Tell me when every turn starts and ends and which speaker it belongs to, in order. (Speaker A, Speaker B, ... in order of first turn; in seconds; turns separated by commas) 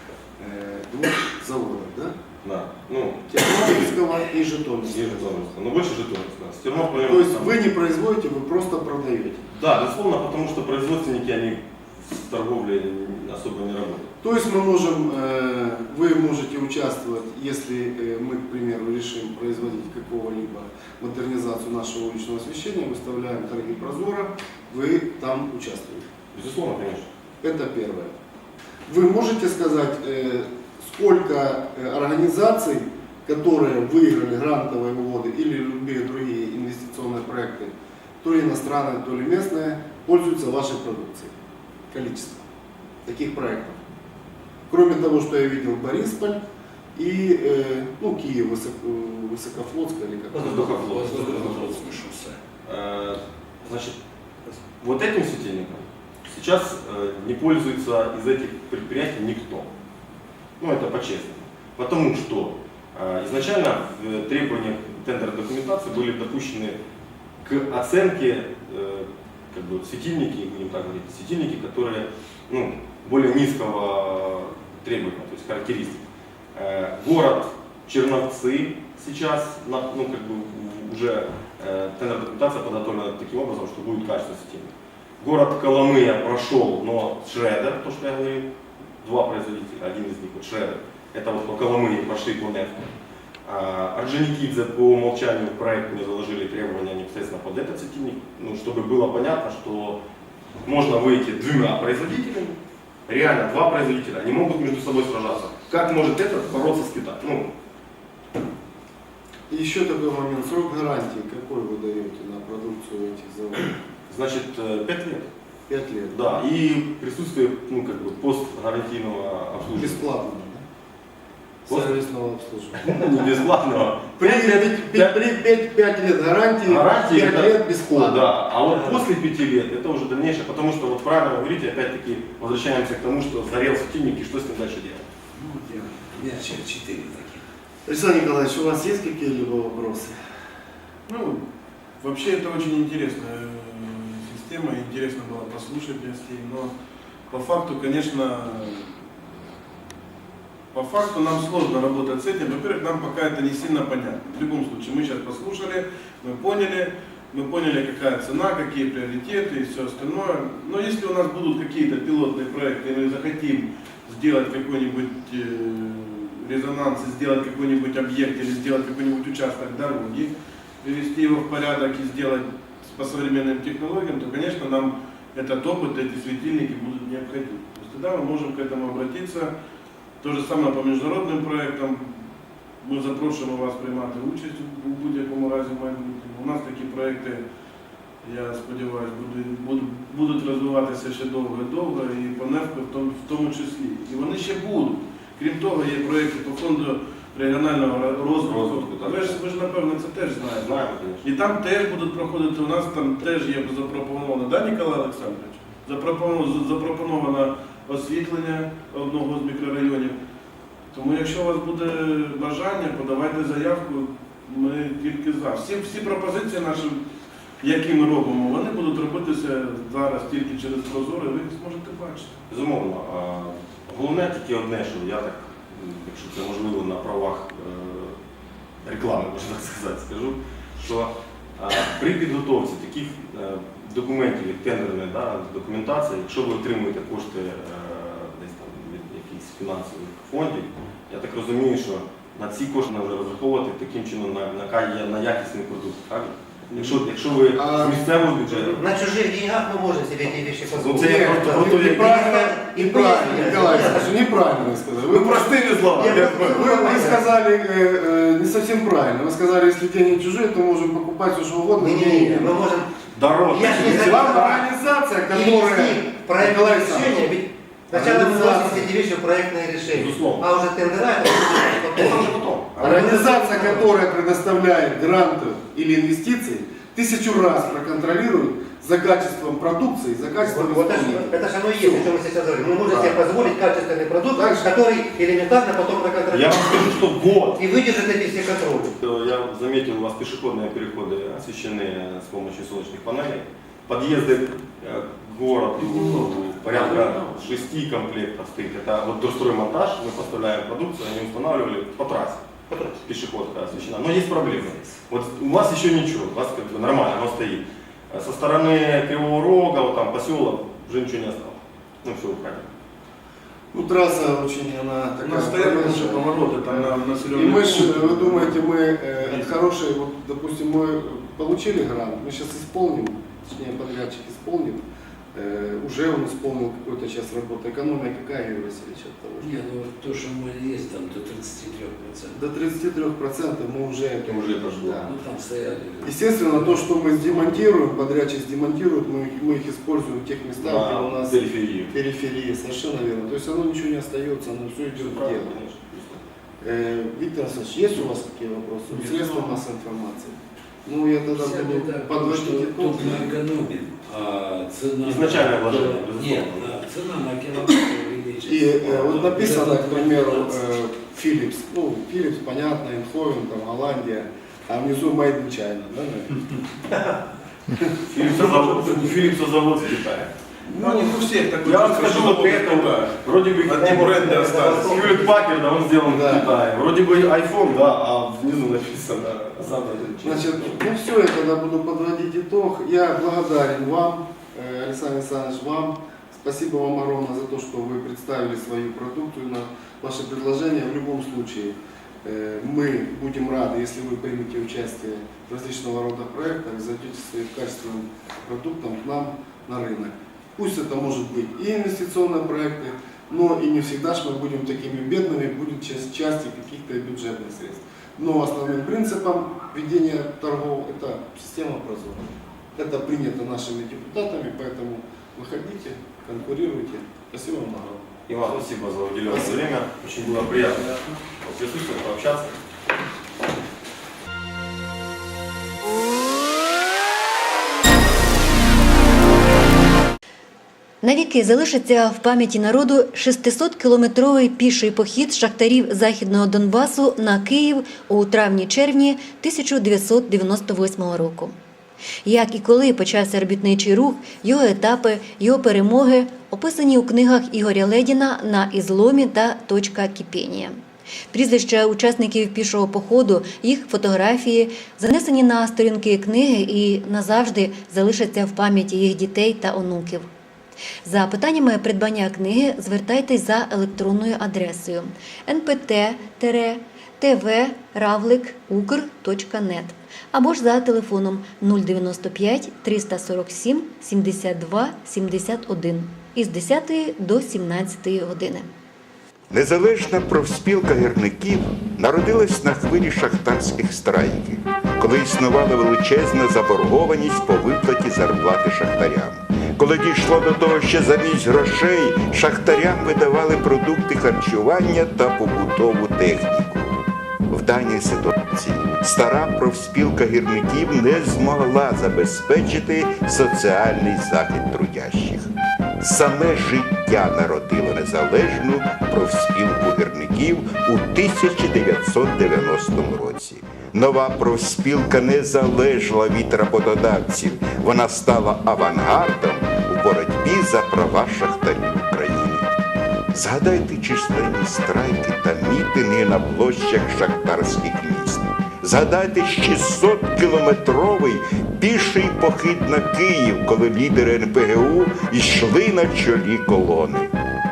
Speaker A: 0.4-2.2, Speaker B: 2.4-4.0, Speaker A: 3.3-5.3, Speaker B: 4.8-7.6, Speaker A: 7.0-9.5, Speaker B: 9.5-14.1, Speaker A: 14.2-26.1, Speaker B: 26.3-27.1, Speaker A: 27.4-28.1, Speaker A: 28.9-41.3, Speaker A: 41.9-42.5, Speaker A: 43.0-43.8, Speaker A: 44.7-46.4, Speaker A: 47.0-50.7, Speaker B: 50.3-51.8, Speaker C: 50.3-52.4, Speaker B: 52.6-54.0, Speaker B: 54.8-59.7, Speaker B: 60.6-66.8, Speaker B: 67.4-76.0, Speaker B: 76.5-88.5, Speaker B: 89.0-92.9, Speaker B: 93.5-100.0, Speaker B: 100.7-107.5, Speaker A: 109.5-113.7, Speaker B: 114.1-115.3, Speaker A: 115.7-116.4, Speaker B: 116.1-120.0, Speaker A: 119.7-120.6, Speaker A: 121.7-123.4, Speaker B: 121.7-121.9, Speaker B: 122.8-125.2, Speaker A: 124.2-128.3, Speaker B: 126.7-135.1, Speaker C: 135.3-137.4, Speaker A: 137.9-140.2, Speaker D: 141.1-141.4, Speaker D: 142.0-146.7, Speaker D: 147.3-149.0, Speaker D: 150.7-179.5, Speaker D: 180.2-182.2, Speaker D: 182.8-187.4, Speaker D: 188.2-210.2, Speaker B: 198.4-199.4, Speaker B: 200.5-201.2, Speaker D: 210.9-217.0, Speaker D: 217.6-222.3, Speaker B: 222.5-228.2, Speaker B: 228.8-248.8, Speaker A: 246.8-248.1, Speaker E: 248.5-254.1, Speaker B: 250.7-252.2, Speaker A: 251.0-262.6, Speaker B: 255.1-256.9, Speaker E: 255.9-257.2, Speaker E: 261.8-262.9, Speaker B: 263.1-264.4, Speaker E: 263.5-264.7, Speaker A: 263.6-267.2, Speaker E: 265.3-273.8, Speaker A: 267.9-268.9, Speaker B: 269.9-270.5, Speaker B: 271.9-273.3, Speaker A: 272.8-282.1, Speaker E: 280.4-289.0, Speaker B: 282.9-283.2, Speaker A: 284.4-284.7, Speaker B: 286.3-287.6, Speaker B: 289.0-302.5, Speaker C: 296.5-296.9, Speaker E: 302.7-303.0, Speaker B: 303.0-312.7, Speaker A: 313.7-329.6, Speaker D: 315.2-318.6, Speaker D: 319.2-319.5, Speaker C: 329.4-332.4, Speaker A: 332.3-335.1, Speaker B: 334.2-335.1, Speaker C: 334.9-336.9, Speaker A: 336.0-345.6, Speaker B: 340.6-341.9, Speaker B: 344.9-346.2, Speaker A: 346.6-353.3, Speaker D: 348.9-349.6, Speaker C: 351.3-360.6, Speaker B: 355.0-356.8, Speaker A: 358.5-366.6, Speaker B: 368.1-370.3, Speaker D: 368.2-369.3, Speaker D: 370.7-375.2, Speaker A: 370.8-371.3, Speaker B: 371.6-380.8, Speaker E: 373.8-375.3, Speaker A: 376.0-376.5, Speaker A: 380.2-418.7, Speaker B: 418.3-422.5, Speaker A: 419.2-419.7, Speaker F: 431.0-441.5, Speaker F: 442.2-450.8, Speaker F: 451.3-460.3, Speaker F: 461.0-478.7, Speaker G: 479.5-505.5, Speaker G: 506.0-522.7, Speaker G: 523.3-537.3